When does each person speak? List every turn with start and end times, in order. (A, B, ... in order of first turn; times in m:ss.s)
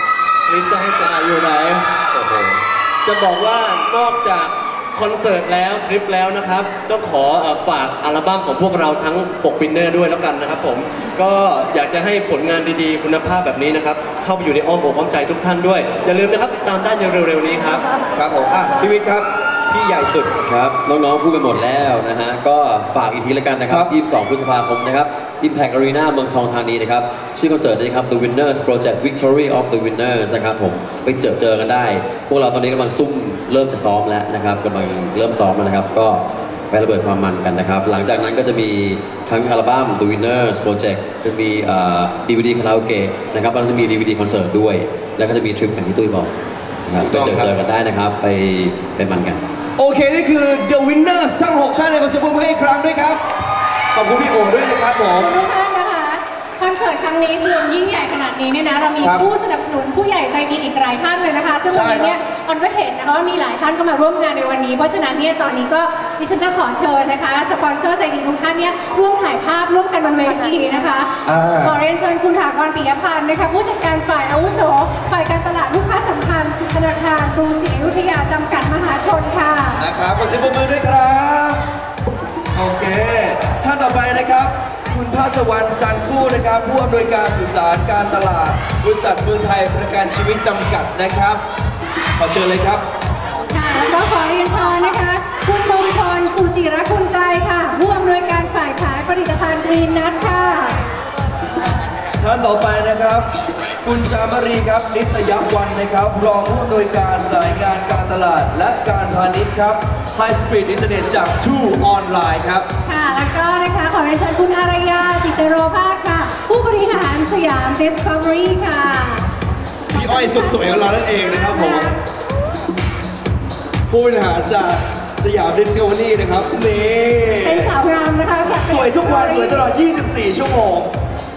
0:00.5-0:17.8 A
0:18.2-0:20.3 B
0:20.4-0:46.3 C
0:46.8-0:49.4 C
0:47.0-0:47.5 B
0:49.8-0:53.2 B
0:53.9-0:55.3 B
0:55.1-1:19.8 D
0:59.0-0:59.3 B
1:01.7-1:02.2 B
1:11.2-1:11.8 B
1:19.8-1:21.6 B
1:22.5-1:31.4 B
1:32.2-1:32.8 B
1:33.5-1:40.8 D
1:42.2-1:43.3 B
1:43.8-1:52.7 B
1:52.8-1:59.2 D
1:59.9-2:02.0 D
1:59.9-2:01.9 B
2:03.9-2:07.7 B
2:07.4-2:09.7 D
2:08.6-2:10.9 B